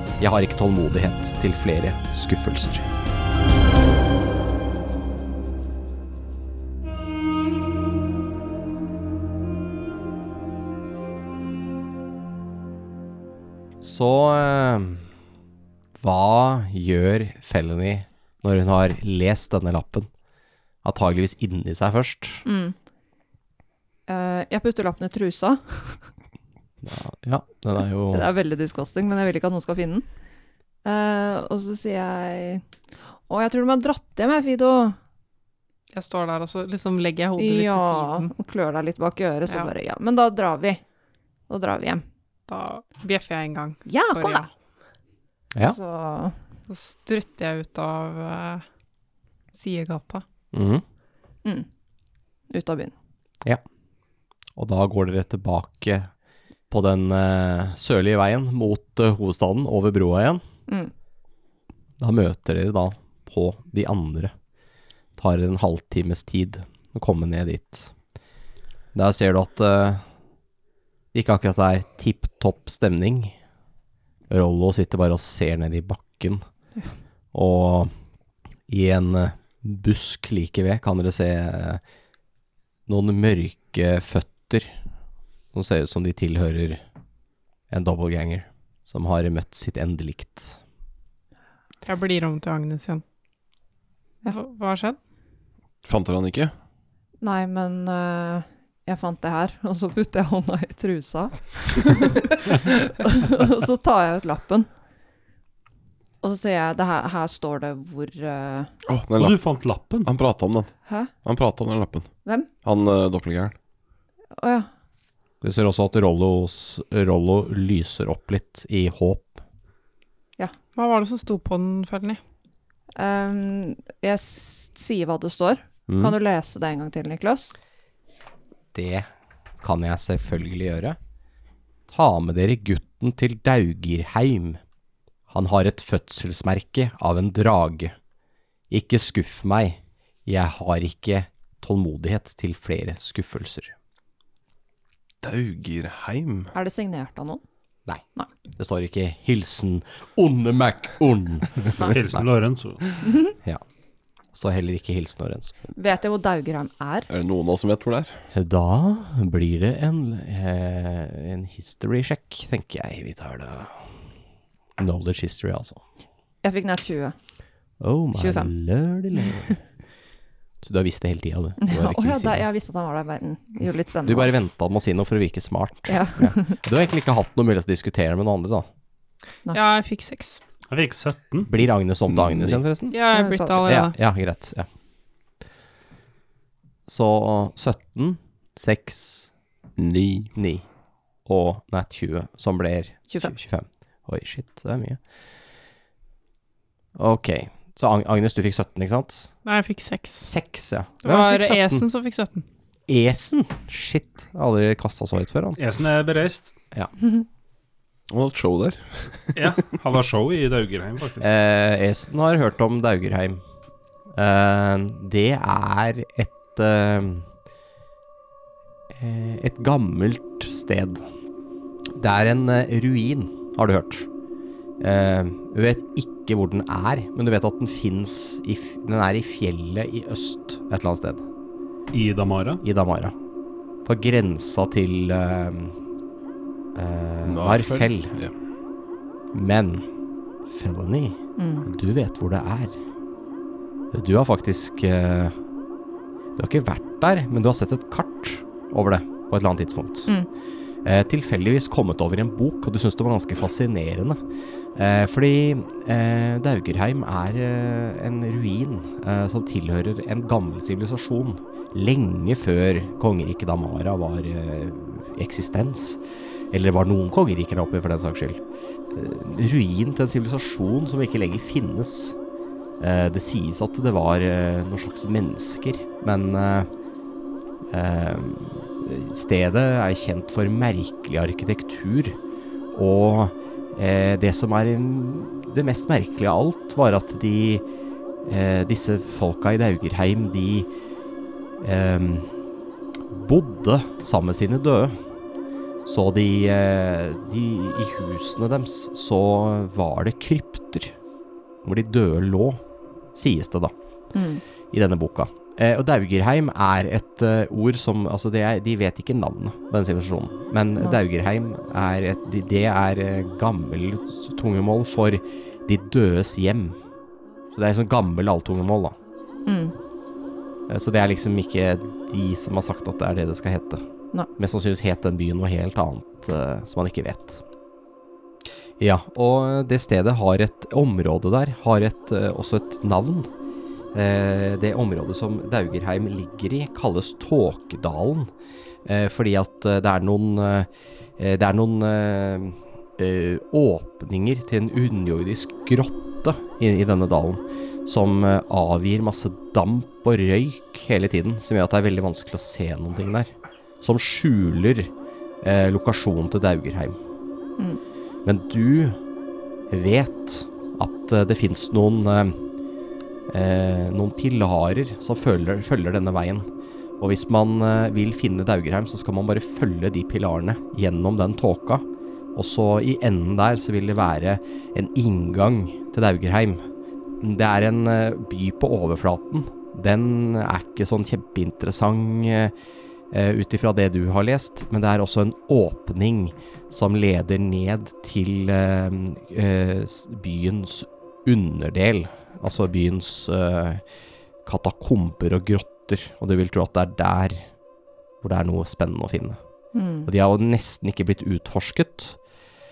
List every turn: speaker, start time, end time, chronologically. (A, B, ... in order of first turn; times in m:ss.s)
0:00.2-0:02.9 A
0:13.8-0:15.0 A
0:16.0-0:20.1 A
0:20.8-0:22.4 A
0:22.4-0:22.8 B
0:24.1-0:26.1 B
0:26.8-0:28.3 A
0:28.1-0:30.0 B
0:30.8-0:32.6 B
0:33.2-0:35.0 B
0:35.9-0:38.3 C
0:37.4-0:40.8 B
0:41.5-0:42.0 B
0:42.5-0:44.5 C
0:43.9-0:44.4 B
0:45.6-0:46.4 B
0:46.7-0:48.6 C
0:49.5-0:50.2 C
0:50.5-0:50.8 A
0:52.5-0:52.9 B
0:54.6-0:56.1 A
0:56.7-1:00.4 A
1:02.0-1:04.3 A
1:05.2-1:07.9 A
1:08.9-1:10.0 A
1:11.1-1:13.3 A
1:14.3-1:16.4 A
1:17.3-1:17.9 A
1:18.7-1:21.8 A
1:22.9-1:24.7 A
1:25.5-1:26.8 A
1:27.7-1:30.6 A
1:31.8-1:33.0 C
1:34.2-1:35.0 C
1:35.8-1:36.5 D
1:37.2-1:44.7 B
1:46.2-1:48.7 B
1:48.9-1:49.4 D
1:49.2-1:50.1 E
1:50.0-1:50.7 D
1:51.2-1:52.1 D
1:52.6-1:53.5 D
1:54.4-1:54.7 B
1:55.4-1:59.4 A
2:00.8-2:02.2 C
2:03.0-2:07.5 B
2:05.9-2:06.2 A
2:08.7-2:09.1 A
2:09.6-2:11.0 A
2:11.9-2:14.6 A
2:15.3-2:17.9 A
2:18.7-2:23.7 A
2:25.2-2:26.5 D
2:26.5-2:27.4 B
2:28.5-2:32.2 A
2:31.8-2:32.8 E
2:33.1-2:33.3 B
2:34.3-2:35.6 A
2:35.8-2:37.1 B
2:37.1-2:38.2 D
2:38.3-2:43.8 A
2:44.8-2:45.8 A
2:46.4-2:47.2 B
2:47.8-2:49.6 A
2:48.1-2:48.5 B
2:50.6-2:52.4 A
2:51.6-2:54.3 B
2:54.0-2:58.6 A
2:55.9-2:56.6 B
2:59.5-3:00.4 C
3:00.7-3:01.5 E
3:01.4-3:03.0 A
3:02.1-3:02.6 D
3:02.9-3:03.9 C
3:03.1-3:03.6 B
3:03.6-3:04.7 A
3:06.9-3:09.3 A
3:09.8-3:10.3 D
3:10.4-3:10.6 A
3:11.2-3:15.0 A
3:17.0-3:19.3 A
3:19.4-3:20.3 C
3:20.2-3:21.8 A
3:21.0-3:22.4 C
3:22.9-3:25.6 A
3:25.6-3:26.5 E
3:28.1-3:29.5 D
3:29.4-3:31.3 E
3:31.2-3:33.4 A
3:34.2-3:37.2 A
3:38.9-3:41.0 A
3:41.9-3:44.1 A
3:44.8-3:51.2 A
3:51.9-3:52.6 E
3:52.6-3:53.1 A
3:53.8-3:55.7 A
3:56.7-3:58.1 A
3:57.2-3:58.3 D
3:59.3-3:59.8 A
4:00.4-4:02.7 A
4:01.4-4:01.6 B
4:03.9-4:05.3 A
4:06.4-4:10.1 A
4:10.8-4:14.2 A
4:14.7-4:28.4 A
4:28.9-4:32.2 A
4:32.8-4:36.7 A
4:37.7-4:42.2 A
4:42.7-4:47.6 A
4:48.2-4:50.7 A
4:51.6-4:52.3 A
4:53.1-4:54.9 A
4:55.8-5:00.9 A
5:01.6-5:02.6 A
5:03.1-5:03.7 A
5:04.1-5:04.4 B
5:04.7-5:16.8 A
5:17.5-5:19.0 A
5:19.4-5:19.7 B
5:20.7-5:23.8 A
5:24.4-5:27.4 A
5:28.8-5:33.3 A
5:33.9-5:38.3 A
5:38.8-5:53.3 A
5:53.8-5:57.0 A
5:58.2-5:59.0 A
5:59.7-6:02.4 A
6:03.3-6:06.5 A
6:07.0-6:11.8 A
6:12.3-6:16.6 A
6:17.2-6:22.5 A
6:23.1-6:33.8 A
6:34.4-6:37.4 A
6:38.2-6:39.4 A
6:39.7-6:40.1 B
6:40.0-6:42.2 A